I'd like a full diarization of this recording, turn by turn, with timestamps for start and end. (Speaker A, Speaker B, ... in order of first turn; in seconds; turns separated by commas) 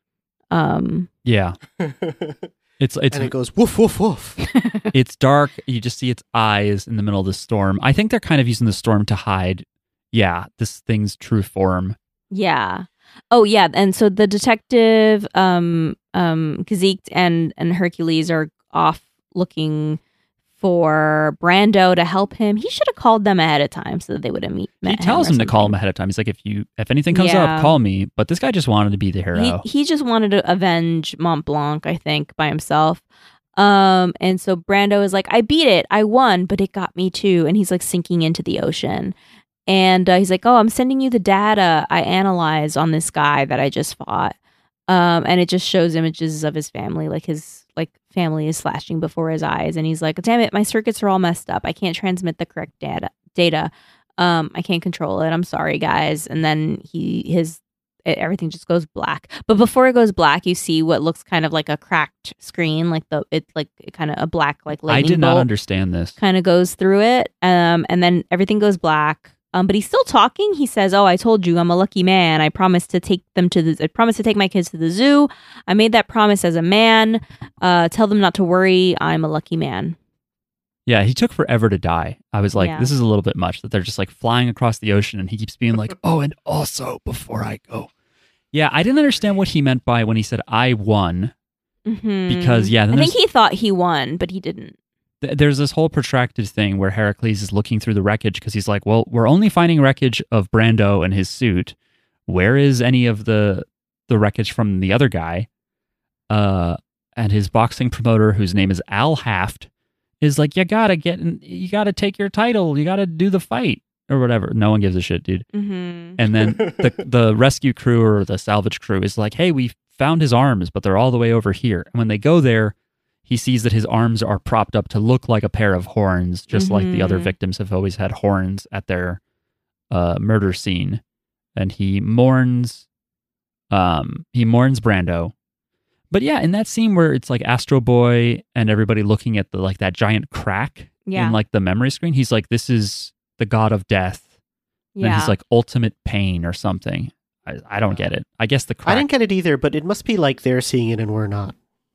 Speaker A: 0.5-1.1, Speaker B: 1.2-1.6, Speaker C: 1.8-2.5, Speaker B: 2.8-3.3, Speaker C: 3.1-4.4, Speaker A: 4.4-4.9, Speaker B: 4.9-12.0, Speaker A: 12.3-20.0, Speaker A: 20.6-25.8, Speaker B: 24.8-29.6, Speaker A: 27.1-27.8, Speaker A: 29.3-33.0, Speaker A: 33.6-39.1, Speaker A: 39.7-44.4, Speaker A: 44.9-65.5, Speaker B: 64.7-66.2, Speaker A: 66.2-80.0, Speaker B: 80.9-87.9, Speaker A: 82.6-82.9, Speaker B: 88.5-91.3, Speaker A: 91.9-94.8, Speaker B: 92.3-93.2, Speaker B: 95.2-101.8, Speaker B: 102.3-105.5, Speaker B: 106.3-109.7, Speaker B: 110.2-115.5, Speaker A: 115.5-116.2, Speaker B: 116.2-122.8, Speaker C: 116.3-116.9, Speaker B: 123.3-129.2, Speaker A: 126.5-127.3, Speaker B: 129.9-131.0, Speaker B: 131.6-132.9, Speaker B: 133.7-135.3, Speaker B: 136.1-144.3, Speaker A: 141.1-141.4, Speaker A: 144.9-145.3, Speaker B: 145.0-149.1, Speaker C: 148.9-151.6